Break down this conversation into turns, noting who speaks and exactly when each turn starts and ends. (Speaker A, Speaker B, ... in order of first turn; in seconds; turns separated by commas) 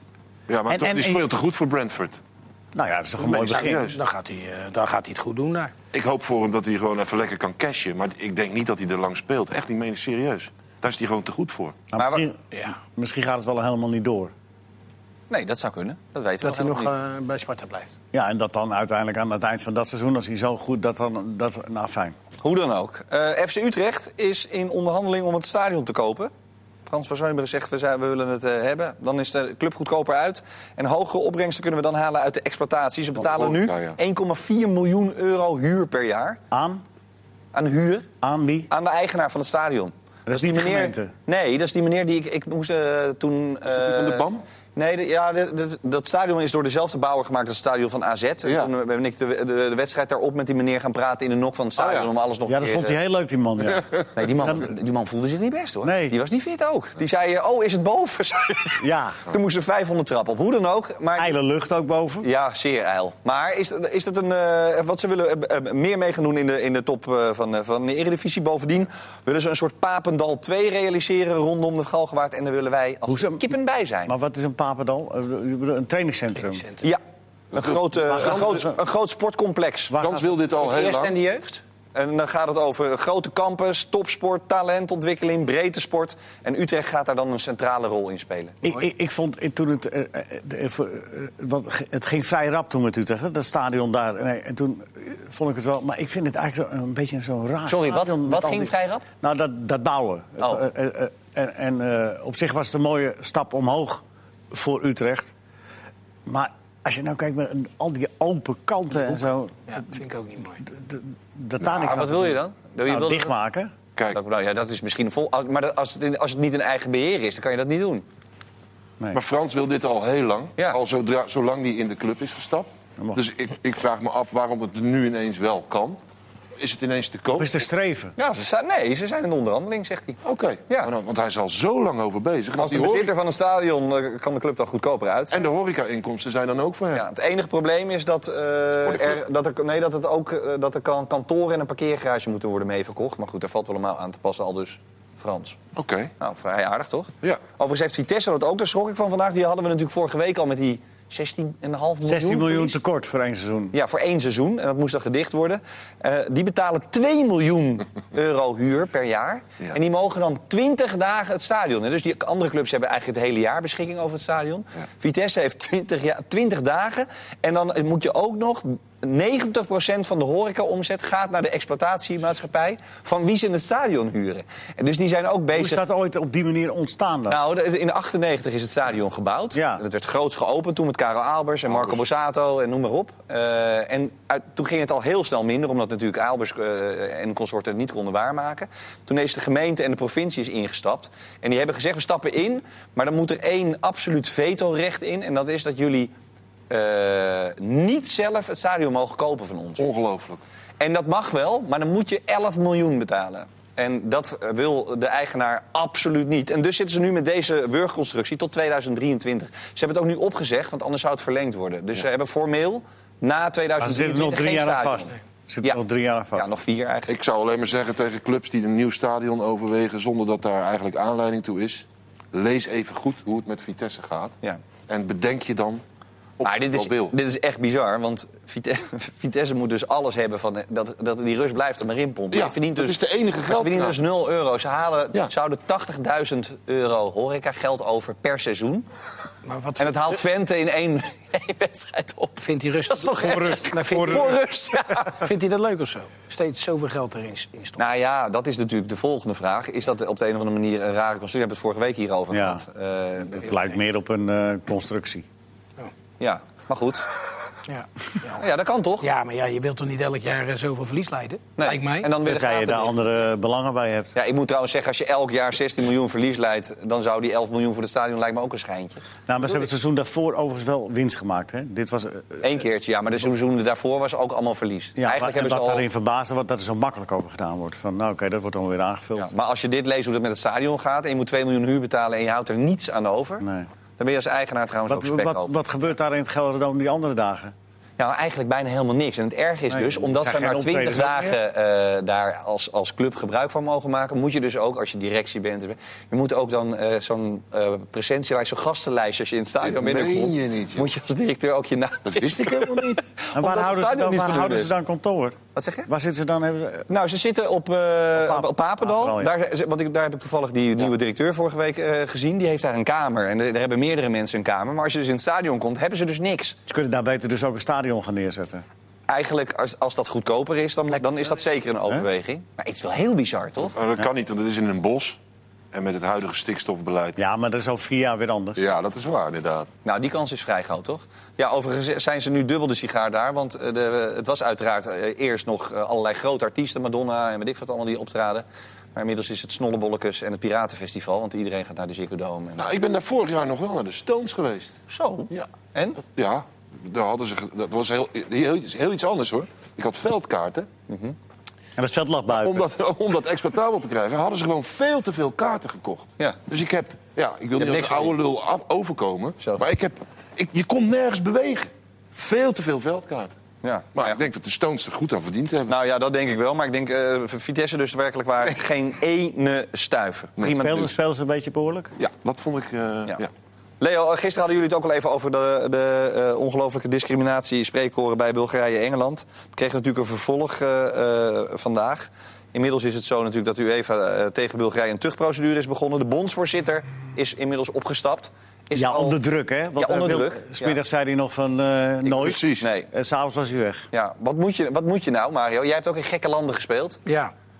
Speaker A: 0.5-2.2, Speaker B: 0.7-1.2, Speaker B: 2.7-3.8, Speaker A: 3.2-4.0, Speaker C: 3.4-5.7, Speaker A: 5.9-11.8, Speaker B: 11.9-14.3, Speaker D: 12.0-12.3, Speaker D: 15.3-16.9, Speaker C: 16.4-18.0, Speaker B: 18.1-22.2, Speaker D: 22.4-26.3, Speaker D: 26.9-36.4, Speaker A: 33.2-34.0, Speaker B: 36.5-36.8, Speaker D: 37.5-38.1, Speaker B: 38.2-38.7, Speaker D: 38.7-53.0, Speaker B: 40.3-41.1, Speaker A: 43.7-44.5, Speaker A: 48.5-48.7, Speaker A: 51.8-52.1, Speaker B: 52.5-54.7, Speaker A: 53.7-54.1, Speaker D: 54.1-61.4, Speaker B: 55.8-56.2, Speaker B: 58.8-59.2, Speaker B: 61.2-62.3, Speaker D: 62.2-74.1, Speaker B: 73.1-73.5, Speaker B: 74.1-76.7, Speaker C: 76.4-76.8, Speaker A: 77.5-78.6, Speaker D: 77.5-80.0, Speaker B: 78.1-78.8, Speaker B: 79.9-80.3, Speaker A: 80.0-81.2, Speaker C: 80.5-81.6, Speaker D: 82.0-88.6, Speaker B: 88.6-105.3, Speaker D: 97.7-99.0, Speaker D: 100.4-100.7, Speaker B: 106.3-109.8, Speaker C: 109.7-110.6, Speaker B: 110.6-113.7, Speaker D: 111.7-113.3, Speaker D: 114.1-118.0, Speaker A: 119.1-126.0, Speaker A: 126.6-127.6, Speaker B: 127.4-128.2, Speaker D: 128.2-130.9, Speaker A: 130.2-133.1, Speaker D: 132.6-135.4, Speaker A: 135.3-137.1, Speaker D: 136.9-145.6, Speaker A: 138.9-139.2, Speaker A: 145.8-146.1, Speaker D: 146.2-152.8, Speaker B: 152.0-153.7, Speaker D: 153.7-175.8, Speaker B: 175.6-177.4, Speaker D: 177.3-196.1, Speaker B: 179.5-179.8, Speaker A: 181.7-182.0, Speaker D: 196.7-199.9, Speaker A: 199.8-200.4, Speaker D: 200.8-215.8, Speaker B: 213.8-216.5, Speaker D: 216.3-217.1, Speaker A: 217.1-225.8, Speaker A: 226.4-227.1, Speaker D: 226.4-238.9, Speaker A: 232.3-234.0, Speaker C: 239.4-240.2, Speaker D: 239.8-245.2, Speaker C: 242.4-244.4, Speaker B: 243.2-244.3, Speaker C: 244.9-247.8, Speaker D: 247.8-253.7, Speaker B: 252.3-252.6, Speaker B: 253.3-255.2, Speaker D: 256.2-257.1, Speaker C: 257.7-258.4, Speaker D: 258.4-259.1, Speaker C: 259.0-262.1, Speaker D: 261.6-263.0, Speaker B: 262.2-264.1, Speaker D: 264.1-269.0, Speaker B: 269.3-272.5, Speaker D: 272.4-275.9, Speaker B: 275.0-279.3, Speaker D: 279.2-283.4, Speaker B: 283.4-283.7, Speaker D: 284.0-285.5, Speaker B: 284.9-287.5, Speaker D: 288.0-304.7, Speaker B: 289.7-291.4, Speaker A: 299.6-300.9, Speaker A: 302.1-303.0, Speaker B: 303.4-306.9, Speaker D: 305.6-305.9, Speaker D: 306.9-316.6, Speaker B: 308.1-309.3, Speaker B: 316.7-318.6, Speaker D: 319.1-323.8, Speaker A: 323.7-325.2, Speaker A: 325.7-327.2, Speaker B: 327.2-328.6, Speaker A: 328.6-329.7, Speaker D: 329.9-342.7, Speaker A: 342.6-344.8, Speaker D: 344.9-346.0, Speaker A: 346.0-350.7, Speaker D: 350.9-351.1, Speaker B: 351.8-352.7, Speaker A: 352.3-363.4, Speaker D: 357.6-358.1, Speaker D: 363.6-364.2, Speaker A: 363.9-365.7, Speaker D: 365.7-370.9, Speaker A: 370.4-370.8, Speaker B: 370.4-371.9, Speaker A: 372.0-373.3, Speaker D: 373.8-389.2, Speaker B: 388.8-393.9, Speaker D: 389.8-390.8, Speaker A: 392.1-392.7, Speaker D: 392.2-392.9, Speaker D: 393.9-397.0, Speaker C: 397.1-397.3